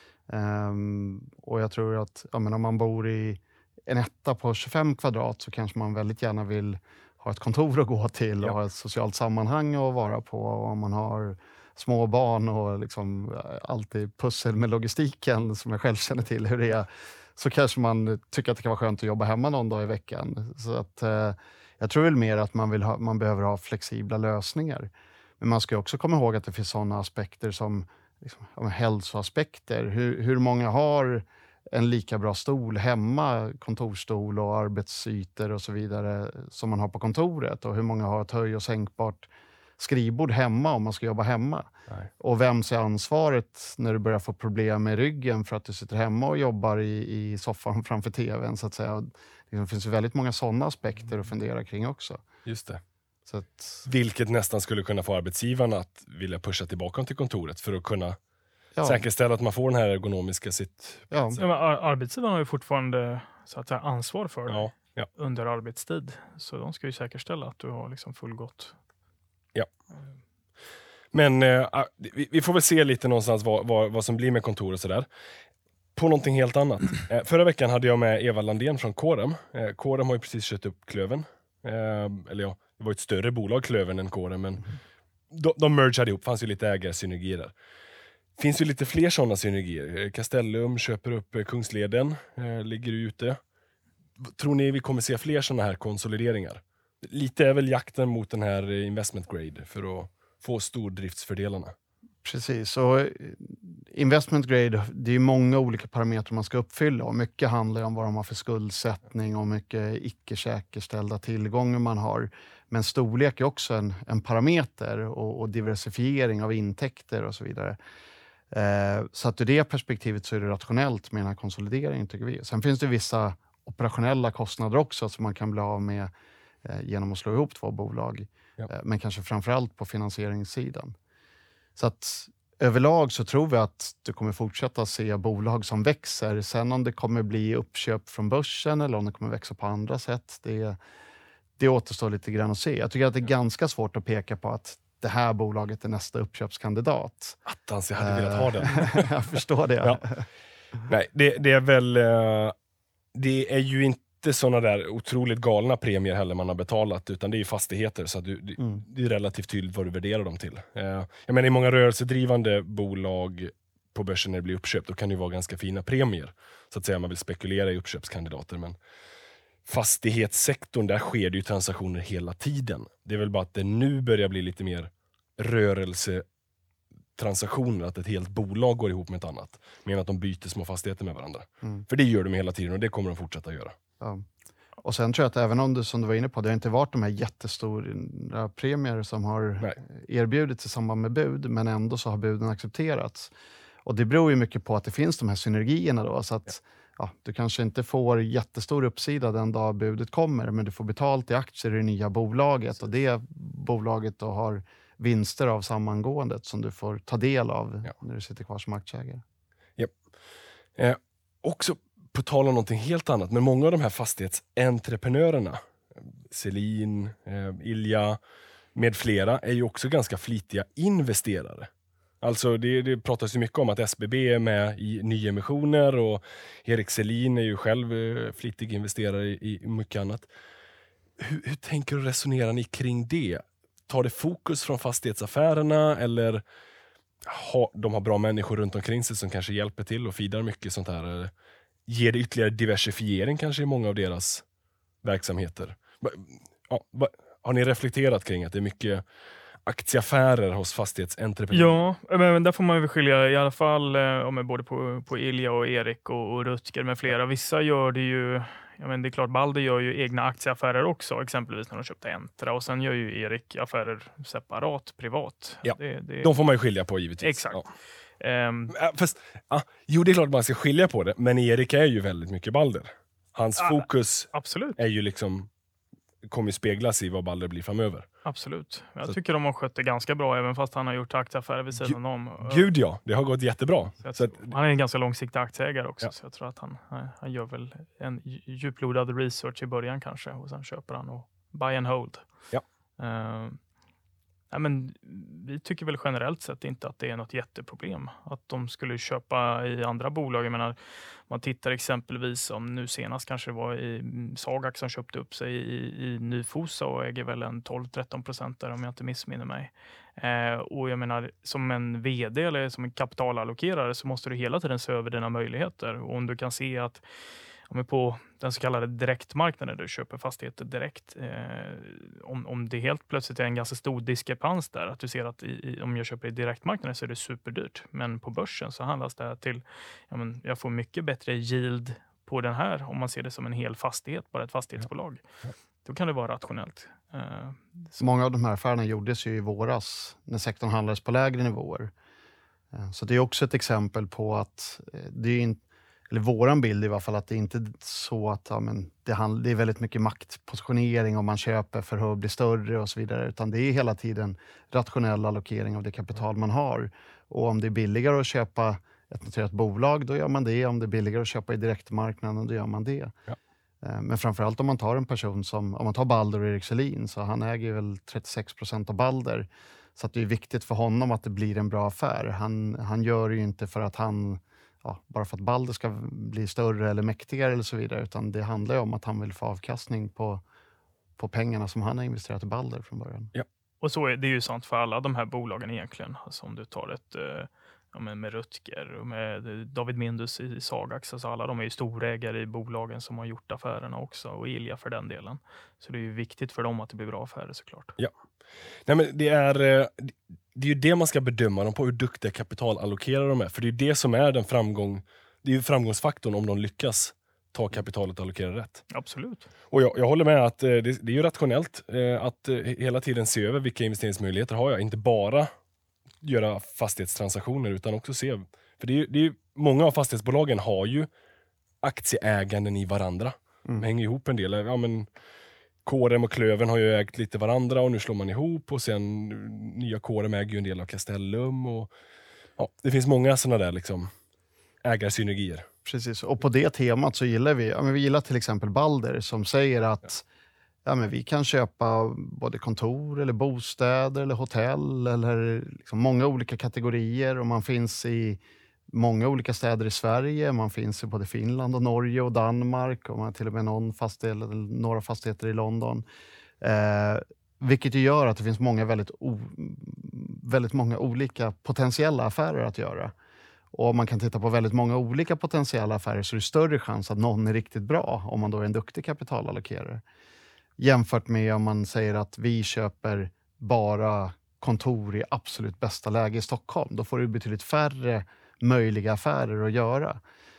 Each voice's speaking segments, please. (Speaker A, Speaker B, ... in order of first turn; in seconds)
Speaker A: 0.3-41.7, 42.2-52.2, 53.3-53.9, 58.7-59.0, 61.1-61.4, 102.2-117.8, 118.5-126.1, 126.6-130.9, 131.8-140.8, 141.6-147.4, 148.0-150.2, 184.0-184.2, 184.8-193.3, 193.8-209.2, 338.0-341.9, 342.7-363.1, 363.8-380.4, 381.2-383.3, 435.8-440.2, 440.9-456.0, 456.6-463.1, 463.7-470.0, 470.8-480.2
Speaker B: 52.5-52.8, 53.8-58.2, 58.8-61.4, 64.5-65.1, 71.1-75.1, 75.9-84.6, 85.3-87.5, 88.4-93.4, 94.2-101.7, 147.4-149.1, 150.9-152.5, 153.1-168.8, 169.7-176.2, 177.2-183.8, 210.8-215.6, 216.2-218.2, 218.7-221.7, 222.2-230.3, 231.2-236.4, 237.2-241.3, 241.9-244.4, 245.0-249.0, 249.7-251.8, 265.6-267.7, 268.7-275.5, 276.3-278.1, 281.8-284.5, 398.9-408.8, 409.7-415.5, 416.2-421.1, 421.8-425.1, 425.8-431.9, 432.6-434.1, 434.8-435.7
Speaker C: 61.4-68.7, 251.5-266.3, 267.2-268.7, 273.6-274.8, 278.2-282.7, 284.0-292.3, 293.0-293.6, 294.5-300.8, 301.3-317.0, 317.7-335.2, 335.8-338.0, 383.8-397.9, 408.9-409.5